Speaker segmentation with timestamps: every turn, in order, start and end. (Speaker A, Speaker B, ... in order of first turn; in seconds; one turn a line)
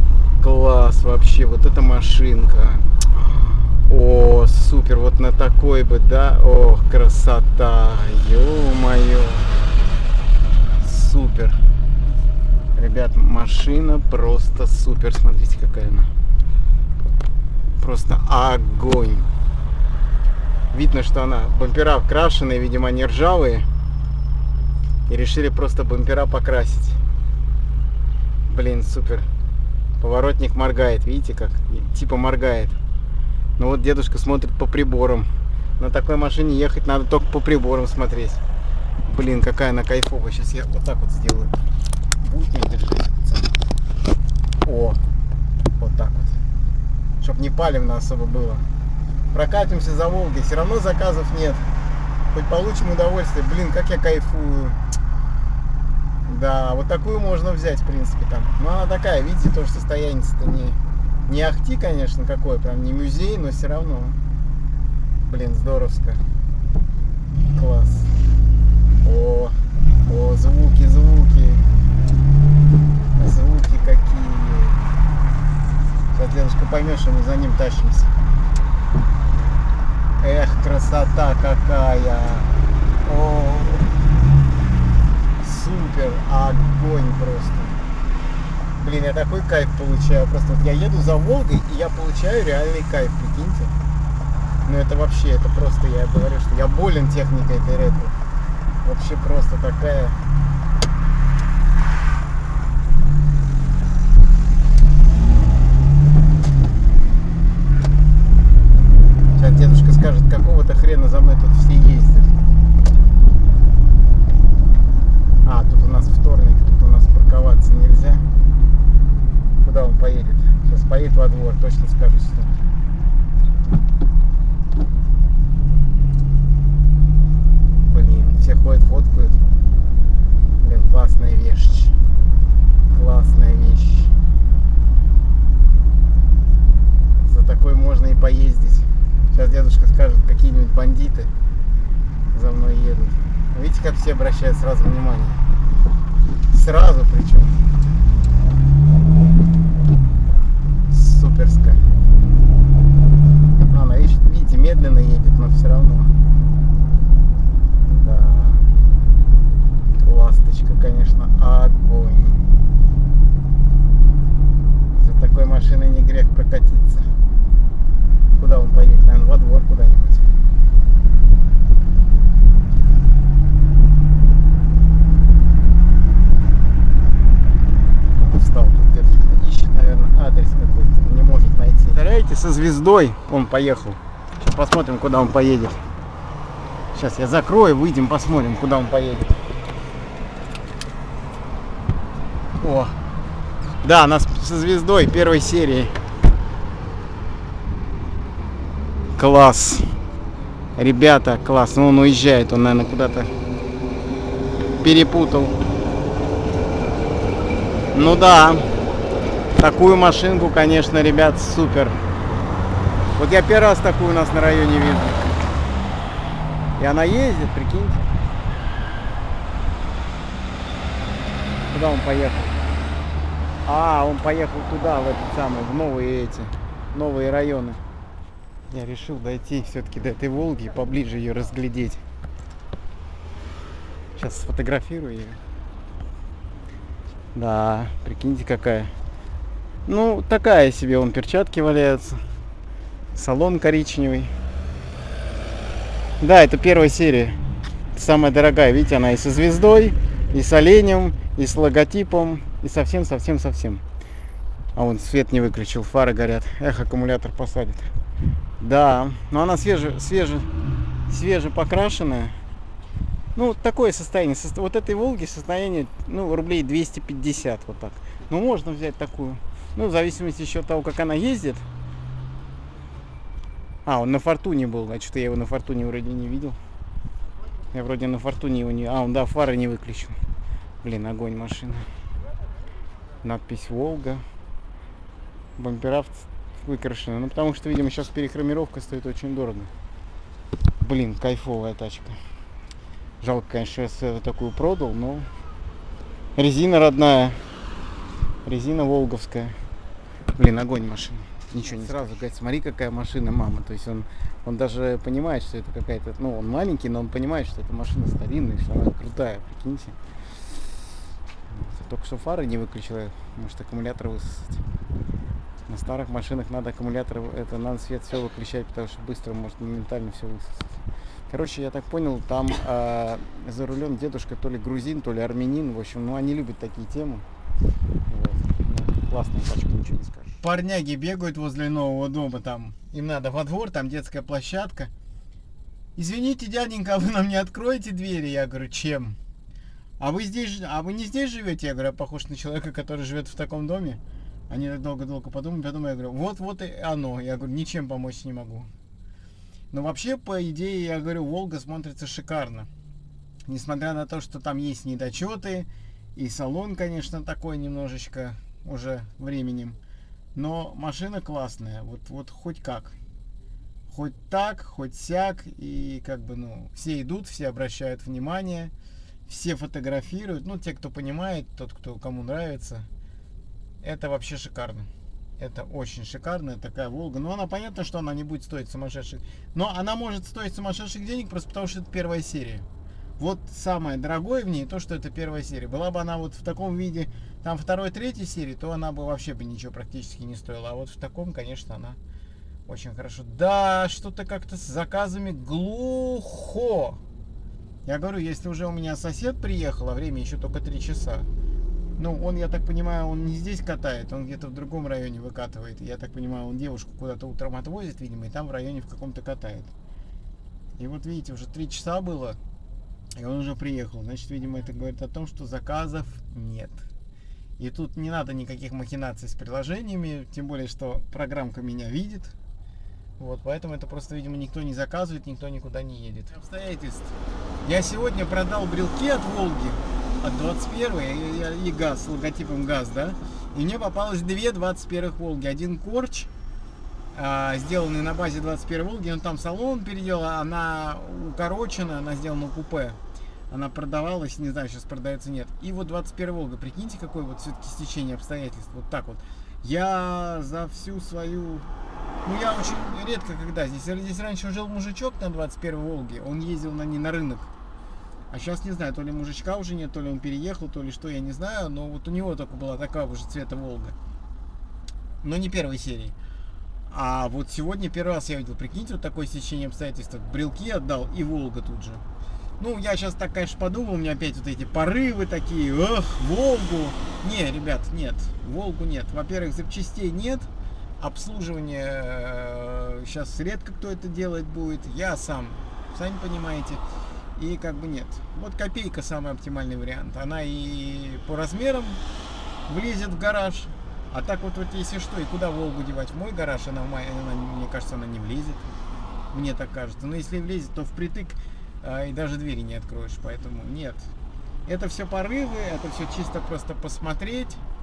Speaker A: 0.4-9.5
Speaker A: 10.8-11.6
Speaker A: 12.7-16.1
Speaker A: 17.8-19.3
Speaker A: 20.7-23.7
Speaker A: 25.1-27.0
Speaker A: 28.5-29.3
Speaker A: 30.0-32.8
Speaker A: 33.6-35.3
Speaker A: 35.8-38.4
Speaker A: 39.0-41.6
Speaker A: 42.2-43.5
Speaker A: 44.6-45.0
Speaker A: 45.8-46.4
Speaker A: 47.2-48.6
Speaker A: 49.3-51.6
Speaker A: 52.3-54.8
Speaker A: 56.2-64.2
Speaker A: 65.2-66.2
Speaker A: 67.5-68.1
Speaker A: 69.0-71.6
Speaker A: 73.2-74.8
Speaker A: 76.1-78.1
Speaker A: 80.2-83.9
Speaker A: 85.4-87.8
Speaker A: 88.8-93.7
Speaker A: 94.6-98.1
Speaker A: 98.8-100.2
Speaker A: 109.4-112.4
Speaker A: 115.4-118.2
Speaker A: 119.6-122.6
Speaker A: 127.9-129.4
Speaker A: 130.6-131.9
Speaker A: 132.9-134.1
Speaker A: 137.2-141.3
Speaker A: 142.3-145.4
Speaker A: 146.5-147.6
Speaker A: 150.9-151.8
Speaker A: 153.6-156.1
Speaker A: 157.9-158.7
Speaker A: 159.9-162.5
Speaker A: 164.9-167.1
Speaker A: 168.3-170.3
Speaker A: 178.1-185.8
Speaker A: 186.9-189.3
Speaker A: 192.6-192.9
Speaker A: 193.8-195.9
Speaker A: 199.2-199.9
Speaker A: 200.8-203.3
Speaker A: 204.8-205.6
Speaker A: 207.9-208.7
Speaker A: 209.6-212.0
Speaker A: 213.2-215.4
Speaker A: 216.8-218.1
Speaker A: 221.7-222.5
Speaker A: 223.6-227.8
Speaker A: 228.7-232.0
Speaker A: 234.2-235.4
Speaker A: 237.3-238.9
Speaker A: 239.9-242.2
Speaker A: 243.1-244.3
Speaker A: 246.2-247.4
Speaker A: 247.9-253.8
Speaker A: 254.7-257.9
Speaker A: 258.6-260.5
Speaker A: 261.1-262.4
Speaker A: 263.3-271.6
Speaker A: 273.9-276.6
Speaker A: 277.7-280.1
Speaker A: 280.8-281.9
Speaker A: 283.2-284.2
Speaker A: 285.6-289.7
Speaker A: 290.8-292.1
Speaker A: 293.2-295.3
Speaker A: 296.4-297.4
Speaker A: 298.4-299.6
Speaker A: 300.3-310.0
Speaker A: 311.5-314.6
Speaker A: 315.7-320.8
Speaker A: 321.3-327.2
Speaker A: 328.1-334.9
Speaker A: 335.9-339.2
Speaker A: 340.0-348.7
Speaker A: 349.7-352.7
Speaker A: 353.5-359.8
Speaker A: 360.3-362.9
Speaker A: 363.9-368.7
Speaker A: 369.3-372.9
Speaker A: 373.8-382.6
Speaker A: 383.2-392.0
Speaker A: 392.7-397.0
Speaker A: 397.9-401.3
Speaker A: 402.0-409.7
Speaker A: 410.8-412.4
Speaker A: 413.2-416.8
Speaker A: 417.6-422.3
Speaker A: 423.2-436.3
Speaker A: 437.1-443.0
Speaker A: 443.5-451.6
Speaker A: 452.2-457.5
Speaker A: 458.3-463.9
Speaker A: 465.2-466.1
Speaker A: 466.9-472.0
Speaker A: 472.6-480.5
Speaker A: 481.0-486.8
Speaker A: 487.4-492.0
Speaker A: 492.7-498.7
Speaker A: 499.3-504.1
Speaker A: 504.6-507.6